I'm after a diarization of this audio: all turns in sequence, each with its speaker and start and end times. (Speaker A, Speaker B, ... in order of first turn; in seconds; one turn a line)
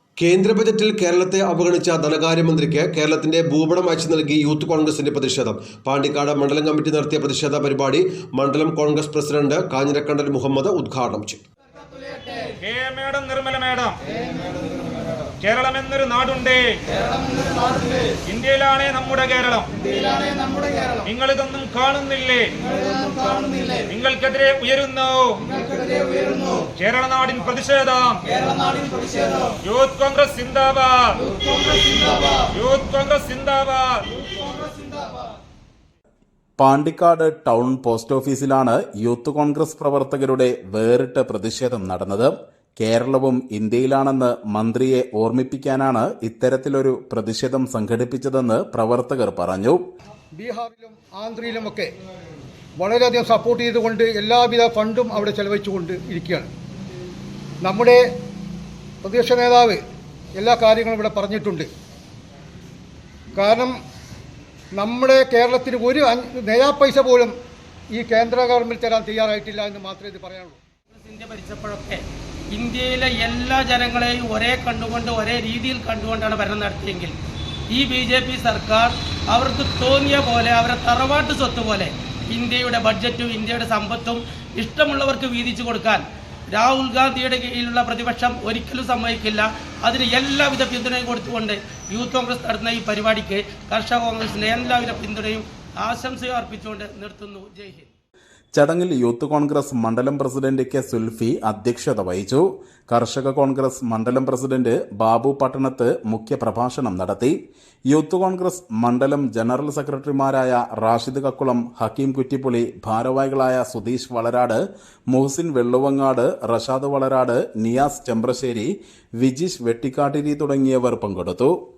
Speaker A: 0.2-11.4
Speaker B: 12.6-14.0
Speaker B: 15.4-16.8
Speaker B: 18.3-19.7
Speaker B: 21.0-22.5
Speaker B: 23.7-25.4
Speaker B: 26.8-28.2
Speaker B: 29.6-31.3
Speaker B: 32.5-34.0
Speaker C: 36.6-49.8
Speaker D: 50.4-51.9
Speaker D: 52.8-56.5
Speaker D: 57.6-58.0
Speaker D: 59.0-59.8
Speaker D: 60.4-61.7
Speaker D: 63.3-63.7
Speaker D: 64.7-67.3
Speaker D: 67.9-70.6
Speaker E: 70.9-77.2
Speaker E: 77.7-97.9
Speaker C: 98.5-107.3
Speaker C: 107.9-121.5